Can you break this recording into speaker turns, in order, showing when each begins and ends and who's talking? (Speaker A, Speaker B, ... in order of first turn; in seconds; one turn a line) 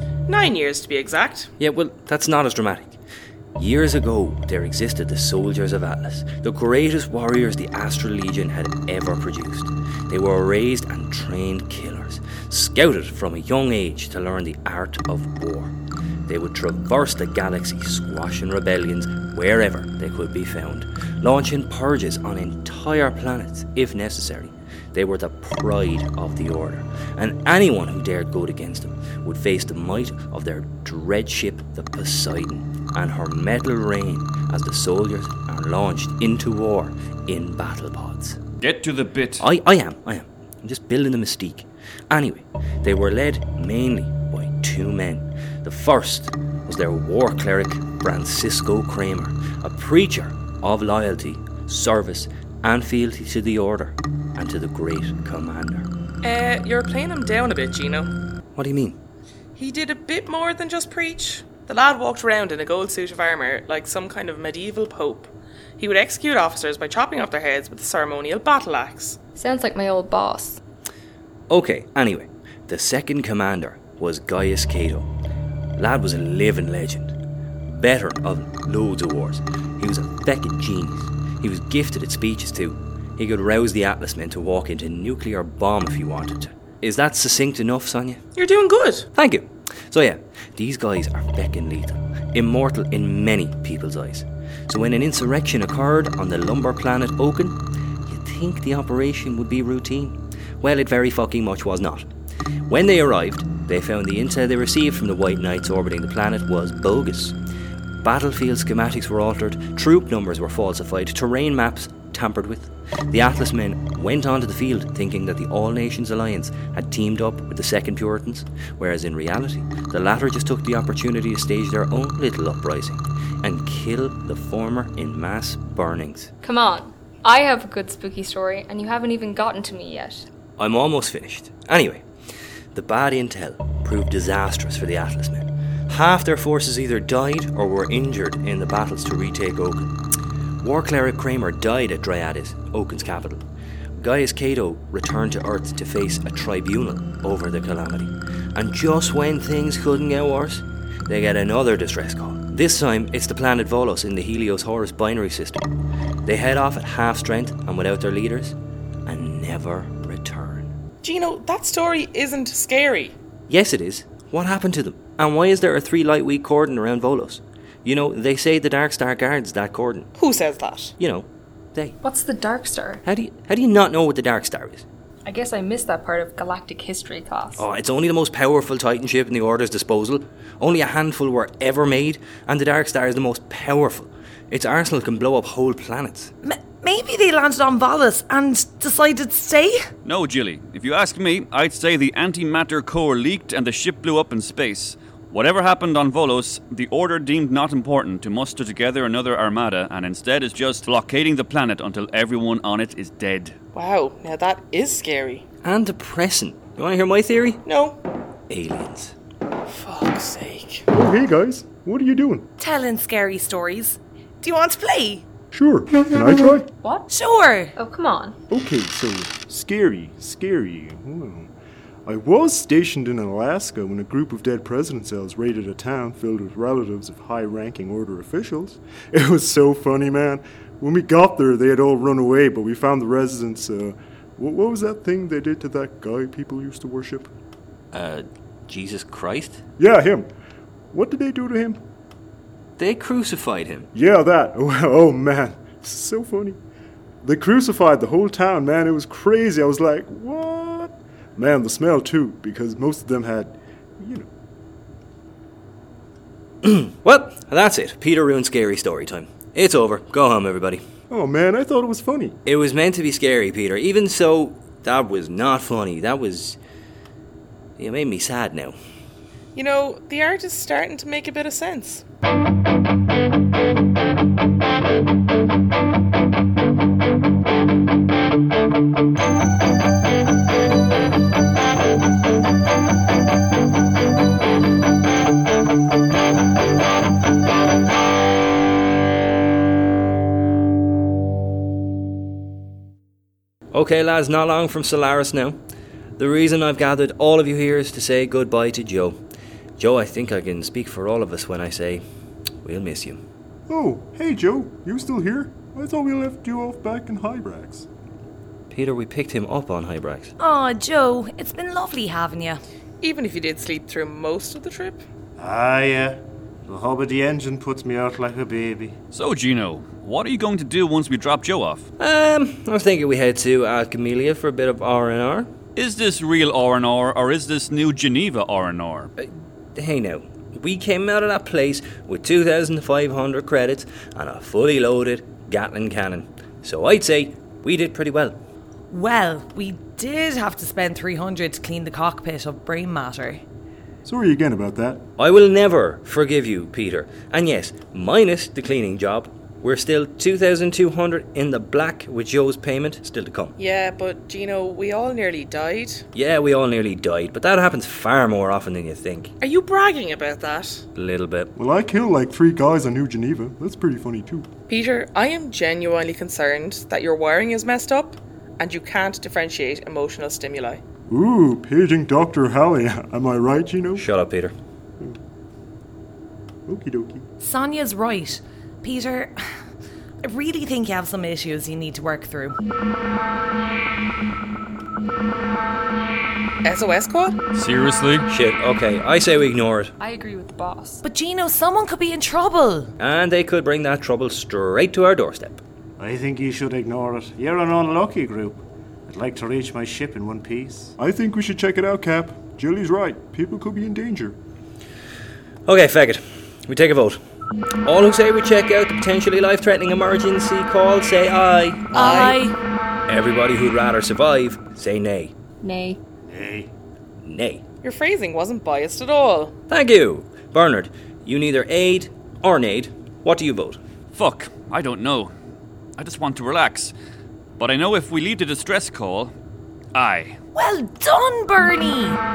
Speaker A: 0.3-1.5
Speaker B: 1.6-3.0
Speaker B: 3.5-15.7
Speaker B: 16.3-38.4
Speaker C: 38.6-39.5
Speaker B: 39.4-55.9
Speaker A: 56.2-58.1
Speaker B: 58.5-59.0
Speaker A: 59.5-69.2
Speaker D: 69.3-70.6
Speaker B: 71.5-75.1
Speaker B: 75.8-77.1
Speaker B: 77.7-88.2
Speaker A: 88.3-89.1
Speaker B: 89.1-102.1
Speaker B: 102.7-107.3
Speaker B: 108.0-126.3
Speaker D: 126.4-130.3
Speaker B: 130.6-132.0
Speaker B: 132.7-139.9
Speaker B: 140.6-143.4
Speaker B: 144.0-155.7
Speaker B: 156.2-160.7
Speaker A: 161.0-163.2
Speaker B: 163.5-170.1
Speaker A: 170.2-170.9
Speaker B: 171.0-172.0
Speaker D: 172.0-173.0
Speaker B: 173.0-174.8
Speaker D: 175.2-177.7
Speaker B: 177.6-186.3
Speaker E: 186.4-189.9
Speaker C: 190.0-203.6
Speaker A: 203.7-205.4
Speaker B: 205.6-207.6
Speaker A: 207.6-208.0
Speaker B: 208.5-209.1
Speaker A: 209.7-210.9
Speaker F: 210.9-212.5
Speaker E: 212.6-215.2
Speaker F: 215.5-216.7
Speaker D: 216.8-217.1
Speaker E: 217.1-217.7
Speaker D: 217.8-218.3
Speaker F: 218.5-221.5
Speaker F: 222.0-237.3
Speaker B: 237.9-239.6
Speaker F: 239.8-240.3
Speaker F: 240.9-241.8
Speaker B: 242.8-243.9
Speaker F: 243.9-246.6
Speaker F: 247.2-254.3
Speaker B: 256.6-260.8
Speaker F: 261.1-262.4
Speaker B: 262.4-266.6
Speaker B: 267.8-268.8
Speaker A: 269.5-272.0
Speaker B: 293.7-295.6
Speaker B: 296.2-299.2
Speaker B: 299.8-302.0
Speaker B: 302.6-303.2
Speaker F: 303.7-307.9
Speaker B: 308.7-310.3
Speaker E: 310.4-312.6
Speaker A: 313.0-315.0
Speaker G: 315.4-319.0
Speaker C: 319.1-321.9
Speaker B: 322.0-325.5
Speaker C: 325.8-329.1
Speaker B: 329.2-338.4
Speaker E: 338.9-343.4
Speaker F: 344.0-345.0
Speaker B: 345.2-353.5
Speaker A: 353.6-356.1
Speaker B: 356.1-359.3
Speaker A: 359.4-360.8
Speaker B: 360.9-361.5
Speaker F: 361.5-364.5
Speaker A: 364.7-370.8
Speaker F: 371.1-374.1
Speaker B: 373.9-374.5
Speaker F: 376.7-377.2
Speaker E: 377.4-379.4
Speaker E: 380.2-382.6
Speaker A: 386.6-387.4
Speaker C: 387.5-388.3
Speaker B: 388.3-389.9
Speaker D: 390.0-391.0
Speaker E: 391.0-392.9
Speaker B: 393.0-395.6
Speaker G: 396.0-401.0
Speaker F: 401.0-404.4
Speaker B: 405.6-407.2
Speaker B: 407.8-412.3
Speaker E: 411.9-412.6
Speaker A: 411.9-412.4
Speaker B: 413.1-415.3
Speaker D: 415.6-416.0
Speaker G: 416.2-416.7
Speaker B: 417.2-417.6
Speaker A: 417.8-419.5
Speaker B: 419.7-423.8
Speaker C: 424.1-425.3
Speaker C: 426.0-426.9
Speaker C: 427.6-429.3
Speaker C: 429.9-430.4
Speaker E: 430.5-432.2